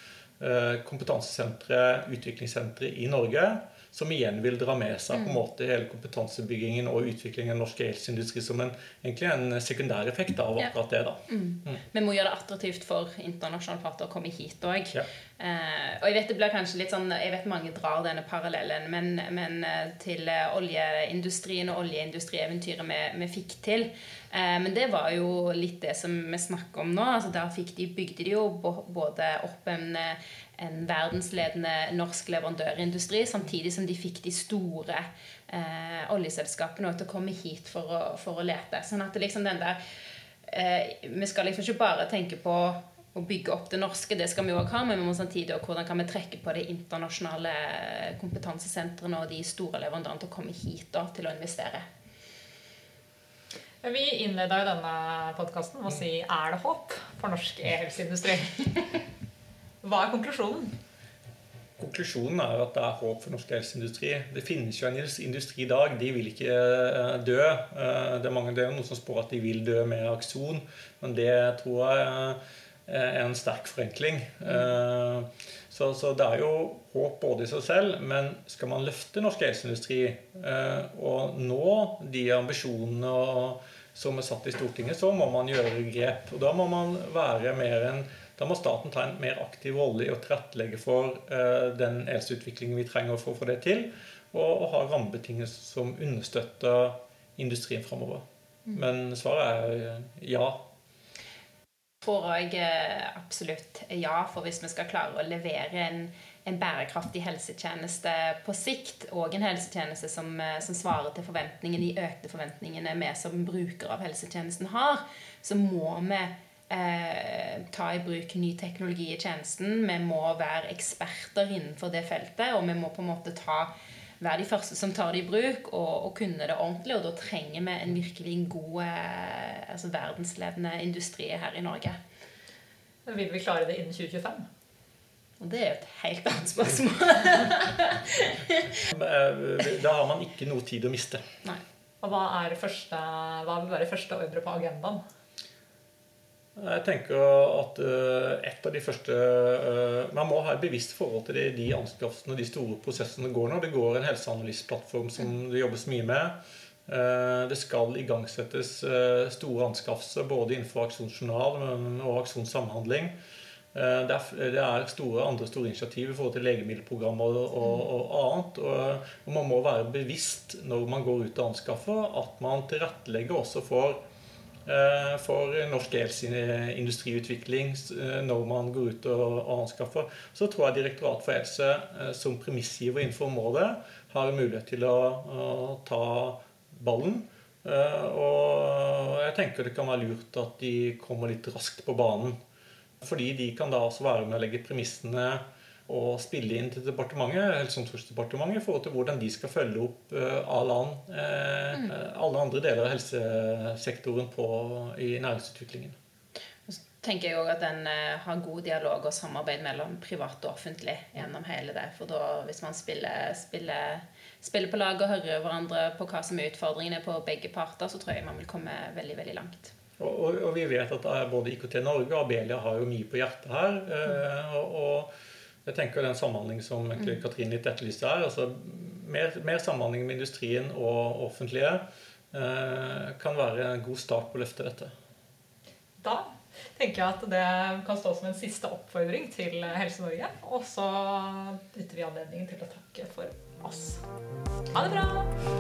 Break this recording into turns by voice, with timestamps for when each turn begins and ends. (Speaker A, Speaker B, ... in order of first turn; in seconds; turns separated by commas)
Speaker A: 0.4-11.2, Speaker B: 11.3-39.8, Speaker B: 40.5-51.9, Speaker C: 53.8-59.0, Speaker C: 59.8-60.7, Speaker A: 61.8-100.6, Speaker B: 102.0-132.0, Speaker C: 133.1-134.5, Speaker B: 135.4-138.8, Speaker A: 138.9-141.2, Speaker C: 142.0-145.0, Speaker A: 146.6-156.3, Speaker A: 156.9-163.1, Speaker A: 163.7-174.0, Speaker A: 174.7-192.4, Speaker A: 193.0-205.9, Speaker B: 206.7-219.7, Speaker A: 220.0-225.1, Speaker A: 225.6-234.9, Speaker C: 236.0-244.0, Speaker C: 244.7-245.3